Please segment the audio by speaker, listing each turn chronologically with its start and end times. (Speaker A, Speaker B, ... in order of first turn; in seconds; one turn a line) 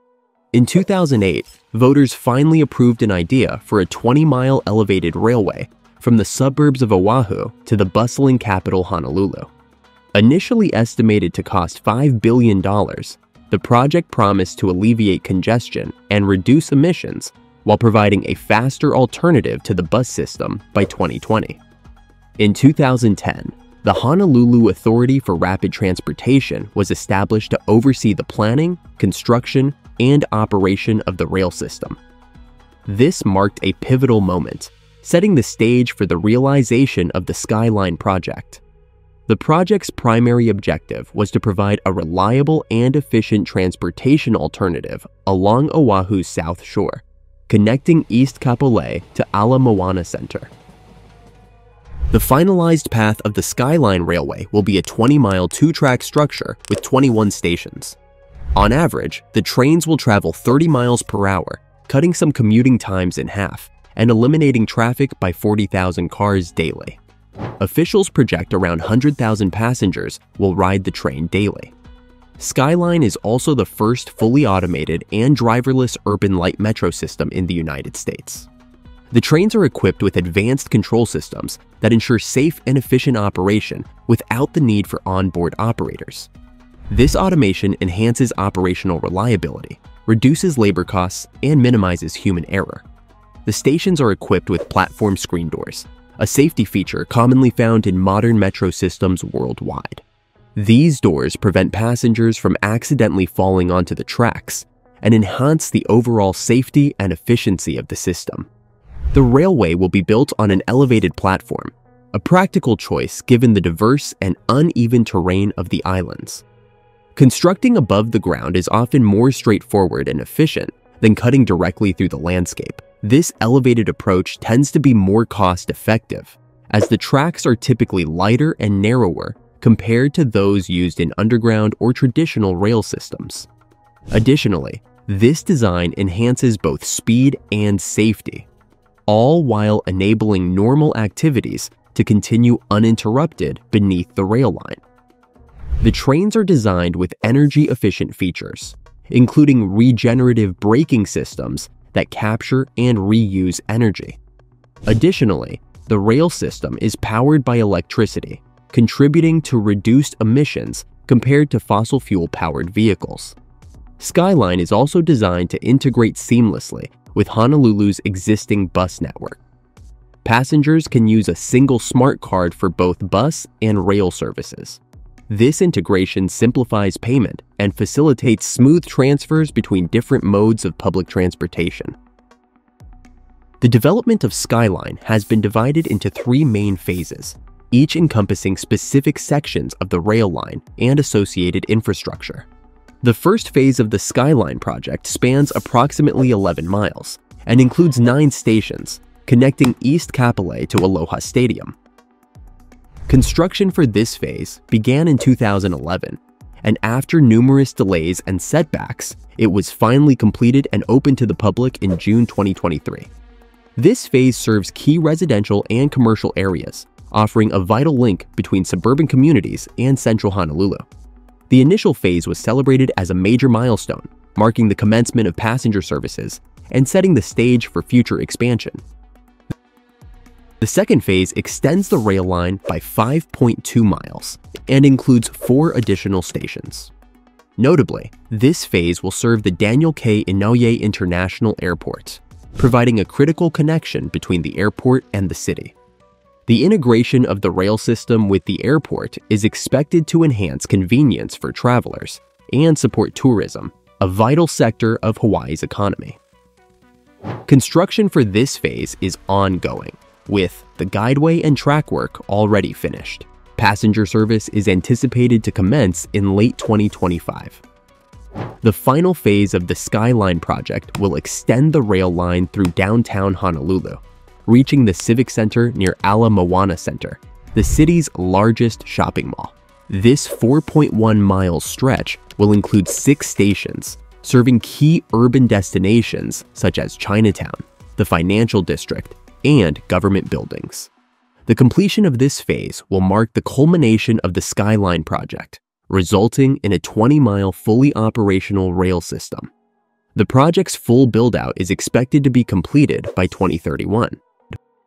Speaker A: 0.5-9.5
Speaker A: 10.1-21.6
Speaker A: 22.4-32.0
Speaker A: 32.9-38.6
Speaker A: 39.3-50.5
Speaker A: 52.1-58.0
Speaker A: 58.5-67.0
Speaker A: 67.6-71.7
Speaker A: 72.4-78.5
Speaker A: 79.1-86.3
Speaker A: 86.9-92.8
Speaker A: 93.5-100.0
Speaker A: 100.5-108.5
Speaker A: 109.1-116.4
Speaker A: 117.2-133.5
Speaker A: 134.1-138.5
Speaker A: 139.1-144.8
Speaker A: 145.8-154.2
Speaker A: 154.9-163.3
Speaker A: 164.0-169.4
Speaker A: 170.2-181.9
Speaker A: 183.6-192.5
Speaker A: 193.0-201.8
Speaker A: 203.1-213.1
Speaker A: 213.8-220.8
Speaker A: 221.5-228.8
Speaker A: 230.6-236.9
Speaker A: 237.6-245.7
Speaker A: 246.5-256.2
Speaker A: 257.5-267.6
Speaker A: 268.6-290.9
Speaker A: 291.5-299.5
Speaker A: 300.1-304.2